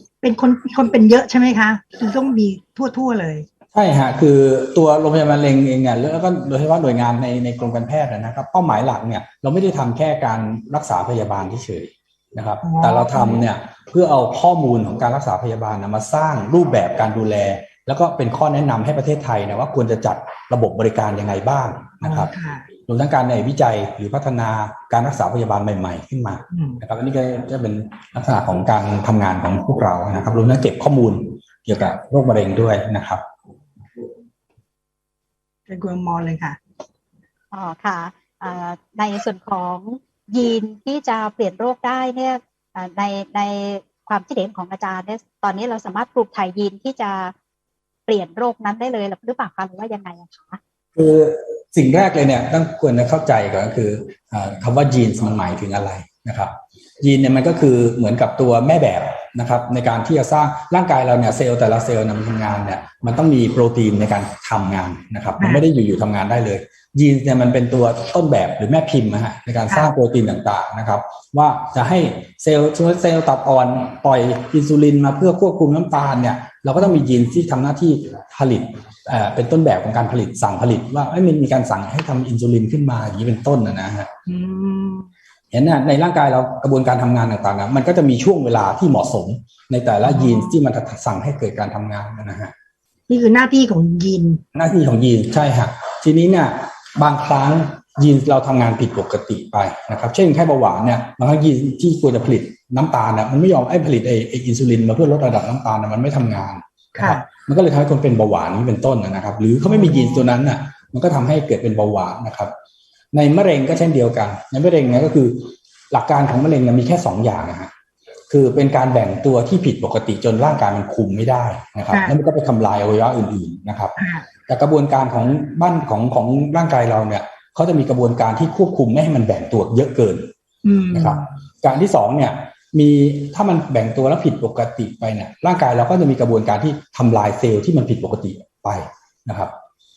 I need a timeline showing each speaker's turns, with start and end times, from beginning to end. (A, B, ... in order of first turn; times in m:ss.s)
0:00.2-0:03.5 A
0:03.7-0:22.3 B
0:12.6-0:13.4 A
0:22.0-0:22.7 A
0:22.9-0:33.2 B
0:26.5-0:26.8 A
0:35.7-0:36.6 A
0:37.5-0:47.3 C
0:48.1-0:50.6 C
0:51.0-1:24.1 B
1:24.3-1:25.1 A
1:25.5-1:32.5 B
1:30.1-1:30.6 A
1:33.1-1:34.4 A
1:34.5-1:52.5 B
1:47.0-1:47.2 A
1:49.7-1:50.3 A
1:53.1-1:57.7 B
1:58.3-2:04.0 B
2:04.0-2:04.2 A
2:04.5-2:10.3 B
2:10.6-2:11.2 A
2:10.9-2:19.5 B